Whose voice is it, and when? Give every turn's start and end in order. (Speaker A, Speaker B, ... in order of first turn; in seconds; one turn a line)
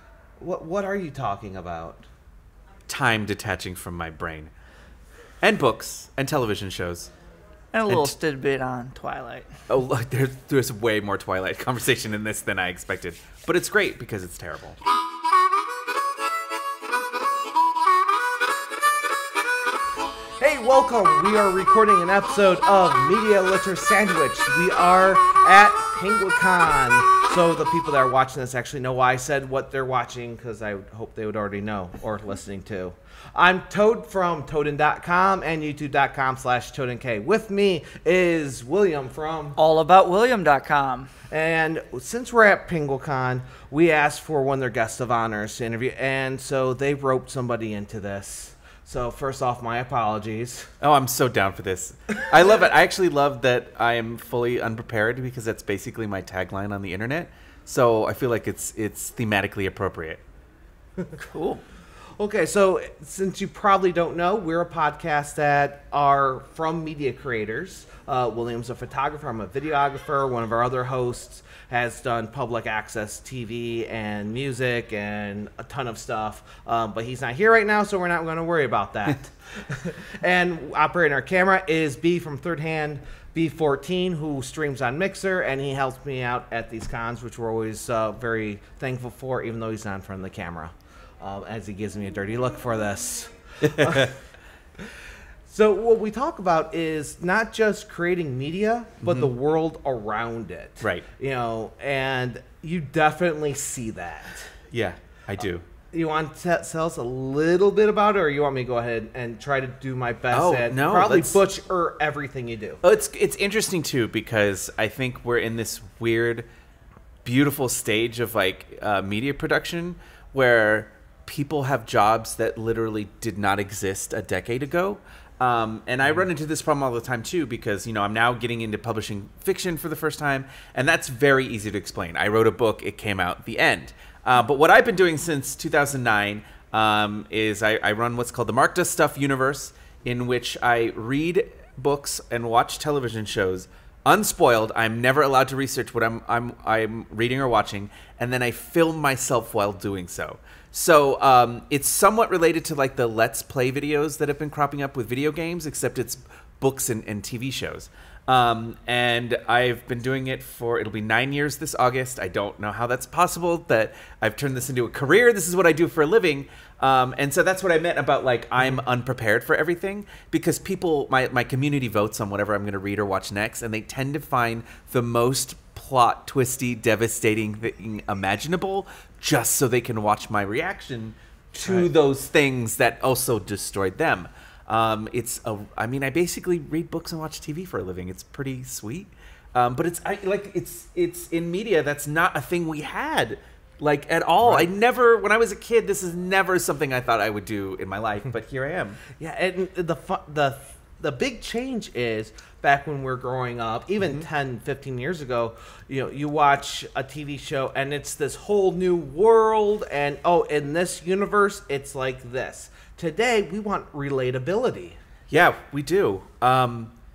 Speaker A: 0.4-2.0
Speaker B: 2.9-4.5
Speaker B: 5.4-7.1
Speaker C: 7.7-9.5
Speaker B: 9.7-14.8
Speaker A: 20.4-39.6
Speaker C: 39.5-41.1
Speaker A: 41.3-50.7
Speaker B: 50.8-60.2
Speaker C: 61.3-61.6
Speaker A: 62.2-94.2
Speaker B: 93.6-94.1
Speaker A: 95.5-104.5
Speaker B: 99.0-99.3
Speaker B: 100.8-101.0
Speaker B: 104.7-105.6
Speaker A: 105.9-112.8
Speaker B: 110.3-111.4
Speaker B: 112.8-116.5
Speaker B: 117.2-199.0
Speaker A: 199.2-215.0
Speaker B: 215.3-216.9